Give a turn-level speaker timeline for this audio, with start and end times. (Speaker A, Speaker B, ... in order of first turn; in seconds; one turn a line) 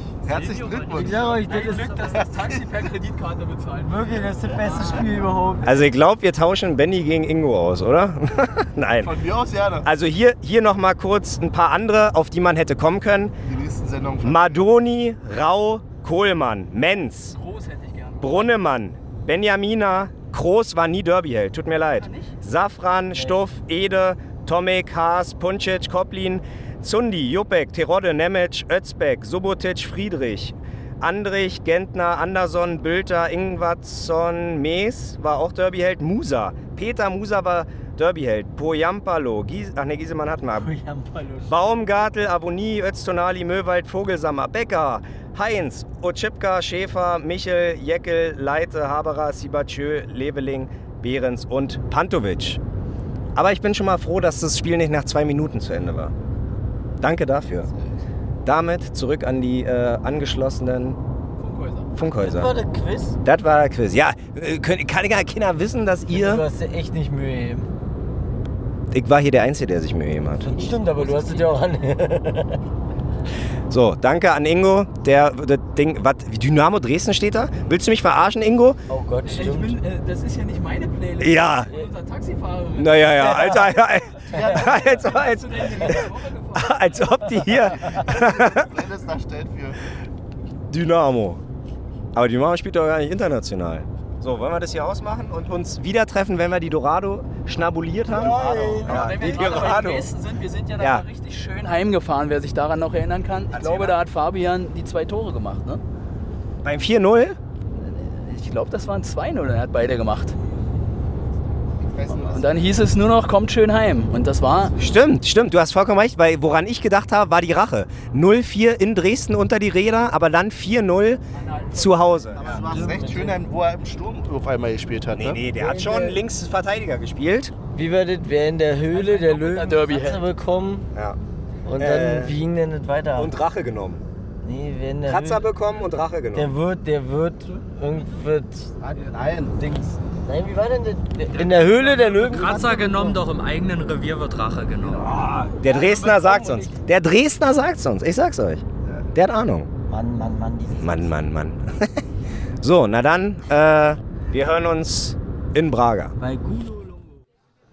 Speaker A: 0.2-1.2
Speaker B: 0.2-2.0
Speaker C: 0.9-2.2
Speaker D: 1.4-5.1
Speaker A: 2.3-2.6
Speaker C: 3.8-5.9
Speaker E: 5.6-9.2
Speaker A: 9.0-9.9
Speaker E: 9.8-13.3
Speaker A: 13.4-14.6
Speaker E: 14.2-17.4
Speaker D: 17.3-18.5
Speaker E: 18.2-40.7
Speaker D: 21.9-22.3
Speaker C: 23.1-23.4
Speaker C: 40.5-41.5
Speaker E: 41.5-52.6
Speaker E: 53.4-56.1
Speaker E: 57.0-57.7
Speaker E: 58.4-61.0
Speaker D: 61.4-61.9
Speaker E: 61.9-62.5
Speaker C: 62.2-63.2
Speaker E: 63.2-66.4
Speaker C: 66.1-67.7
Speaker E: 68.9-70.6
Speaker C: 70.4-72.6
Speaker D: 70.6-71.5
Speaker E: 73.7-78.8
Speaker C: 78.9-79.8
Speaker D: 79.3-83.8
Speaker E: 81.2-81.7
Speaker E: 82.8-88.7
Speaker A: 84.3-84.7
Speaker D: 84.3-87.0
Speaker A: 88.0-89.8
Speaker E: 90.7-91.4
Speaker E: 92.1-100.1
Speaker C: 98.1-99.5
Speaker D: 98.2-105.8
Speaker E: 100.8-101.0
Speaker E: 103.5-104.0
Speaker E: 106.6-107.4
Speaker D: 107.8-110.4
Speaker A: 111.8-112.7
Speaker D: 112.2-114.7
Speaker E: 114.8-121.2
Speaker D: 121.3-123.0
Speaker E: 121.7-122.5
Speaker A: 122.3-125.4
Speaker C: 122.4-123.4
Speaker E: 125.2-127.5
Speaker C: 125.5-126.2
Speaker C: 127.7-130.9
Speaker D: 128.9-130.3
Speaker C: 131.6-133.3
Speaker E: 131.8-132.3
Speaker E: 133.2-134.0
Speaker C: 134.4-135.4
Speaker E: 135.1-136.5
Speaker C: 136.3-138.7
Speaker A: 138.8-139.6
Speaker C: 139.5-143.2
Speaker B: 141.3-145.1
Speaker E: 145.1-149.7
Speaker C: 145.4-146.8
Speaker C: 149.9-151.1
Speaker E: 150.8-152.0
Speaker E: 152.6-156.1
Speaker C: 156.2-156.9